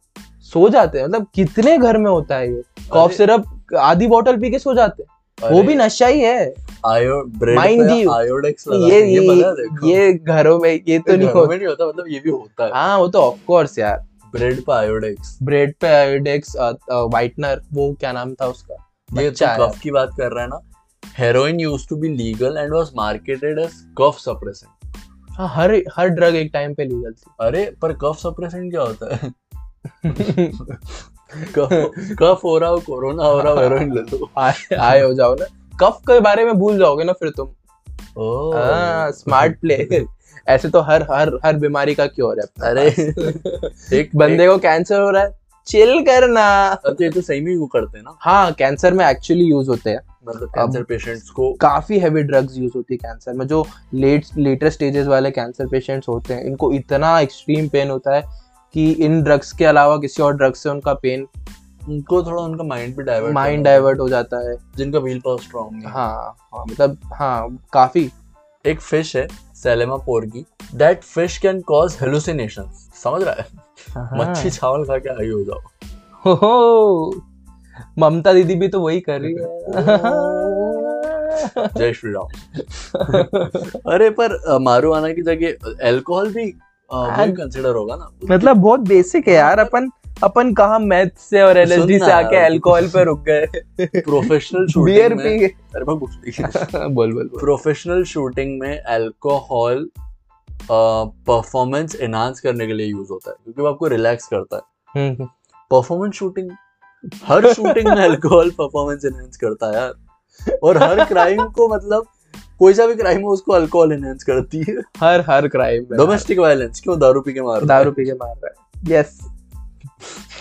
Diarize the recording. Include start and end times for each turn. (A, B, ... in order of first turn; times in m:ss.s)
0:00.4-0:06.6 A
0:02.9-0:03.2 B
0:05.4-0:05.8 B
0:06.8-0:10.0 B
0:07.5-0:08.2 A
0:08.7-0:11.6 A
0:11.1-0:12.8 B
0:12.7-0:14.0 A
0:14.3-0:15.4 B
0:15.4-0:19.8 A
0:19.2-0:20.6 B
0:21.1-0:24.7 B
0:25.4-0:27.3 A
0:27.4-0:29.3 B
0:30.0-0:30.7 A
0:30.1-0:30.9 B
0:31.4-0:32.1 A
0:31.5-0:35.0 B
0:33.4-0:33.7 A
0:34.4-0:37.5 A
0:38.2-0:40.0 B
0:38.5-0:47.0 A
0:42.6-0:44.5 B
0:46.8-0:48.2 B
0:48.2-0:50.0 A
0:50.2-0:51.6 B
0:50.5-0:50.8 A
0:51.6-1:01.3 A
1:01.9-1:03.9 B
1:03.2-1:04.6 A
1:04.8-1:06.0 B
1:05.9-1:08.1 A
1:08.6-1:13.6 B
1:14.0-1:14.6 A
1:14.1-1:15.7 B
1:16.2-1:17.2 A
1:18.0-1:21.8 A
1:19.2-1:21.1 B
1:21.6-1:29.7 B
1:23.0-1:23.7 A
1:27.0-1:27.4 A
1:28.3-1:35.6 A
1:31.6-1:33.1 B
1:34.0-1:36.7 B
1:36.4-1:37.5 A
1:37.4-1:39.9 B
1:40.7-1:44.6 B
1:44.9-1:45.3 A
1:45.7-1:46.6 B
1:47.2-1:50.0 B
1:47.4-1:48.1 A
1:50.6-1:54.9 B
1:50.8-1:51.4 A
1:55.0-1:56.3 A
1:55.9-1:57.9 B
1:57.6-1:59.3 A